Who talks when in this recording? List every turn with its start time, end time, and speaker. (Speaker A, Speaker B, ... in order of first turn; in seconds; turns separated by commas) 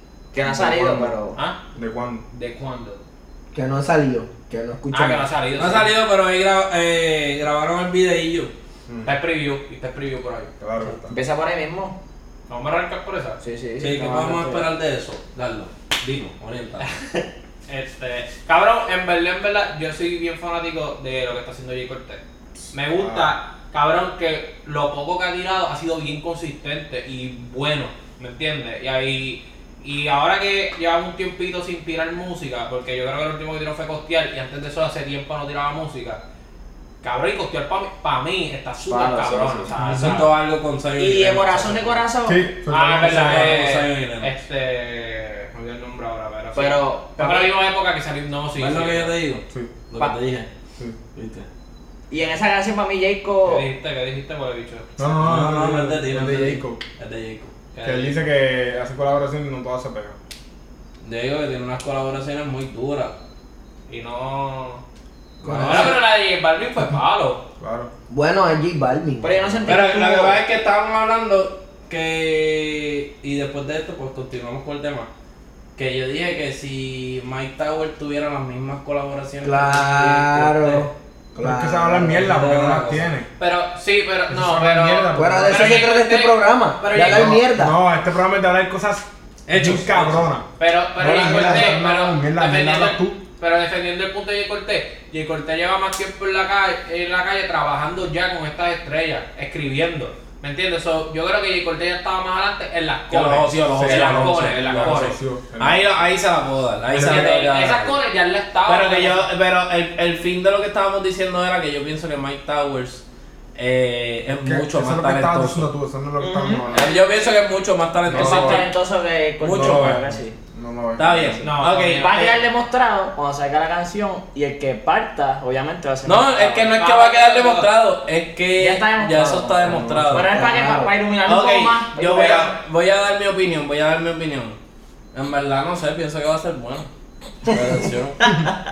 Speaker A: 0.3-1.4, Speaker B: 0.4-1.1, Speaker B: 1.8-2.2, Speaker C: 2.3-3.0, Speaker D: 3.5-5.3, Speaker C: 4.9-5.9, Speaker E: 5.5-8.5, Speaker B: 8.9-9.2, Speaker C: 9.1-10.5, Speaker B: 10.6-11.1, Speaker A: 11.1-12.0, Speaker C: 12.5-13.4, Speaker A: 13.4-14.7, Speaker E: 13.8-16.9, Speaker C: 17.7-36.2, Speaker B: 22.6-23.3, Speaker C: 37.0-40.3, Speaker A: 38.9-39.7, Speaker B: 39.7-40.1, Speaker E: 39.8-42.0, Speaker A: 41.0-42.5, Speaker B: 42.3-43.6, Speaker C: 42.7-49.1, Speaker E: 43.0-44.3, Speaker A: 46.5-47.6, Speaker E: 48.6-50.5, Speaker E: 51.1-51.5, Speaker A: 52.1-53.7, Speaker C: 53.5-54.9, Speaker B: 55.0-56.8, Speaker E: 55.2-57.5, Speaker C: 57.7-58.2, Speaker B: 57.8-60.2, Speaker E: 61.0-63.2, Speaker C: 63.9-64.8, Speaker D: 65.4-66.0, Speaker E: 65.5-66.0, Speaker C: 65.6-67.4, Speaker B: 67.6-67.9, Speaker D: 68.1-70.3, Speaker A: 69.2-70.3, Speaker E: 69.7-75.1, Speaker E: 75.8-80.9, Speaker D: 79.4-82.2, Speaker B: 81.4-83.3, Speaker E: 82.2-83.0, Speaker C: 83.4-87.4, Speaker B: 84.3-85.9, Speaker D: 85.1-87.8, Speaker B: 87.0-90.5, Speaker E: 89.5-90.3, Speaker C: 90.6-105.2, Speaker D: 91.0-91.8, Speaker B: 91.0-93.2, Speaker E: 103.1-108.0, Speaker B: 103.7-106.0, Speaker B: 106.9-107.3, Speaker C: 106.9-109.2, Speaker E: 108.7-113.0, Speaker E: 113.6-115.7, Speaker B: 114.3-116.9, Speaker A: 116.2-116.9, Speaker E: 116.7-118.7, Speaker B: 118.1-118.7, Speaker A: 118.1-120.3, Speaker E: 119.4-120.1, Speaker B: 119.5-121.4, Speaker E: 121.0-122.2, Speaker C: 121.4-122.3, Speaker A: 121.9-126.8, Speaker E: 126.0-130.3, Speaker C: 126.8-127.7, Speaker A: 128.6-132.5, Speaker B: 129.6-130.3, Speaker D: 130.3-130.9, Speaker E: 131.3-134.6, Speaker E: 135.1-136.9, Speaker E: 137.4-138.4